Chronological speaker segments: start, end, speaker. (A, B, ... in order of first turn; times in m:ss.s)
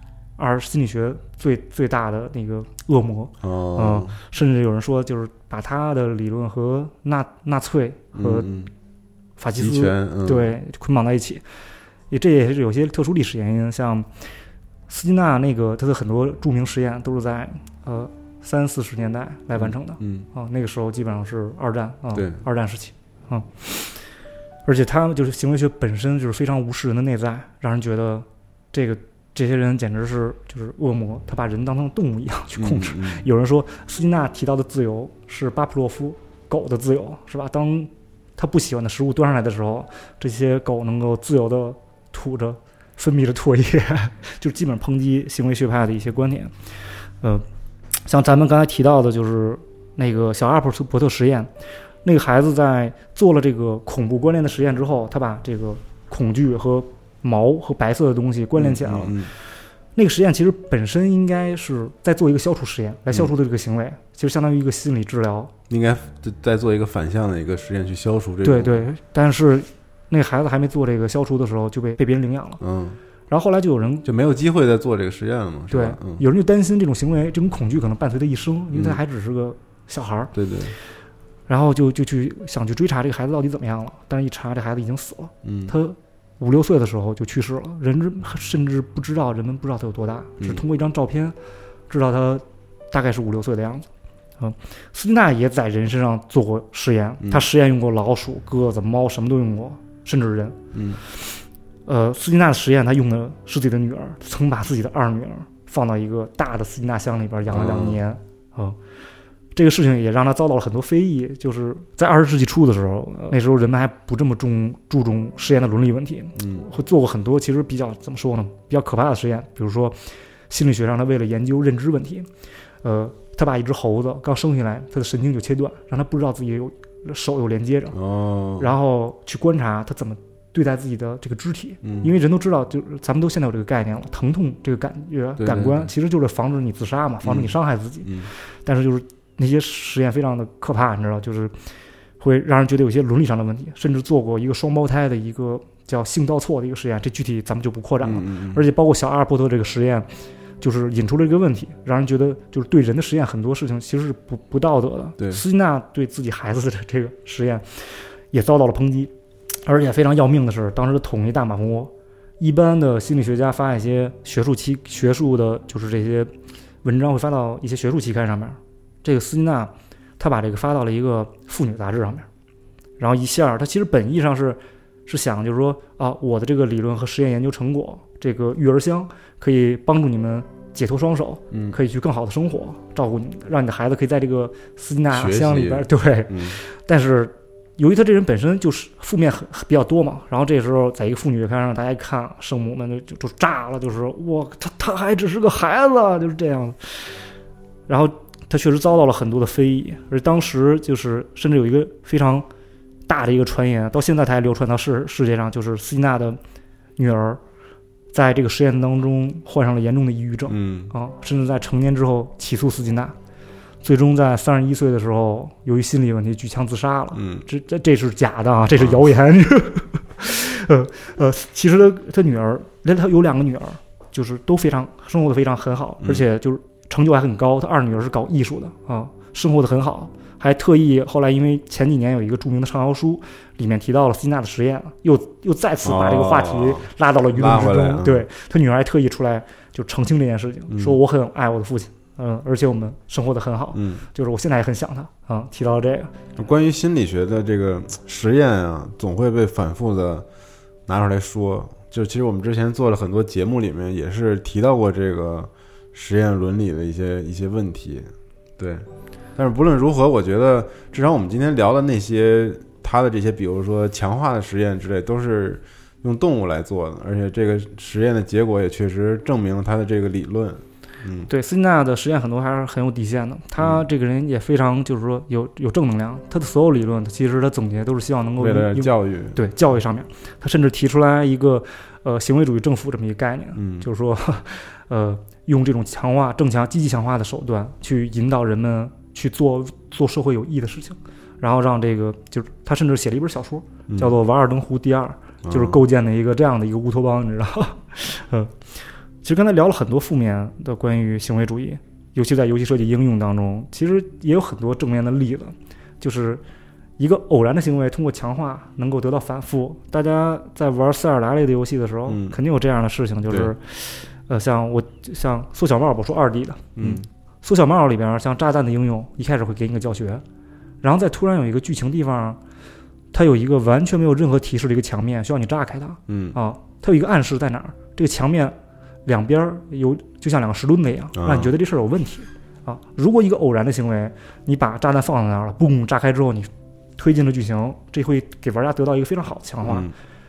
0:00.4-0:08.5 A
0:03.4-0:04.2 B
0:08.1-0:08.7 B
0:09.4-0:11.4 A
0:09.5-0:10.5 B
0:12.1-0:14.1 A
0:14.9-0:24.0 A
0:19.6-0:20.2 B
0:22.1-0:22.4 B
0:24.6-0:46.5 A
0:32.6-0:33.2 B
0:48.0-0:51.5 A
0:52.0-0:59.2 A
0:58.6-0:59.3 B
1:00.0-1:05.5 A
1:05.7-1:08.9 B
1:08.4-1:12.6 A
1:12.6-1:13.0 B
1:13.3-1:14.0 A
1:14.0-1:16.2 B
1:15.7-1:20.3 A
1:18.7-1:19.0 B
1:20.3-1:20.7 B
1:21.5-1:31.3 A
1:25.4-1:25.7 B
1:31.9-1:33.9 A
1:34.4-1:40.6 A
1:40.7-1:41.0 B
1:41.9-1:48.8 A
1:47.5-1:48.0 B
1:49.5-2:00.0 A
1:56.4-1:56.6 B
2:00.5-2:02.3 A
2:02.8-2:08.0 A
2:07.9-2:08.7 B
2:08.6-2:21.5 A
2:11.8-2:12.1 B
2:15.4-2:15.9 B
2:17.2-2:18.3 B
2:22.2-2:30.1 A
2:28.0-2:28.6 B
2:30.6-2:39.1 A
2:39.6-2:46.3 A
2:46.8-2:52.3 A
2:53.0-3:17.1 A
3:01.5-3:01.8 B
3:05.1-3:06.6 B
3:17.9-3:22.5 A
3:23.1-3:26.4 A
3:27.0-3:27.4 A
3:28.1-3:33.2 A
3:30.5-3:30.9 B
3:33.8-4:06.1 A
3:37.1-3:37.4 B
3:38.8-3:39.0 B
3:55.8-3:58.3 B
4:00.7-4:01.0 B
4:03.7-4:04.0 B
4:06.4-4:10.2 B
4:10.9-4:31.3 B
4:31.3-4:58.6 A
4:38.4-4:39.4 B
4:43.6-4:43.9 B
4:53.9-4:54.1 B
4:55.4-4:55.8 B
4:59.2-5:06.4 A
5:07.0-5:20.2 A
5:12.1-5:12.4 B
5:13.3-5:13.5 B
5:16.8-5:17.0 B
5:20.8-5:22.4 A
5:23.1-5:39.9 A
5:26.1-5:26.4 B
5:31.1-5:31.5 B
5:39.6-5:39.9 B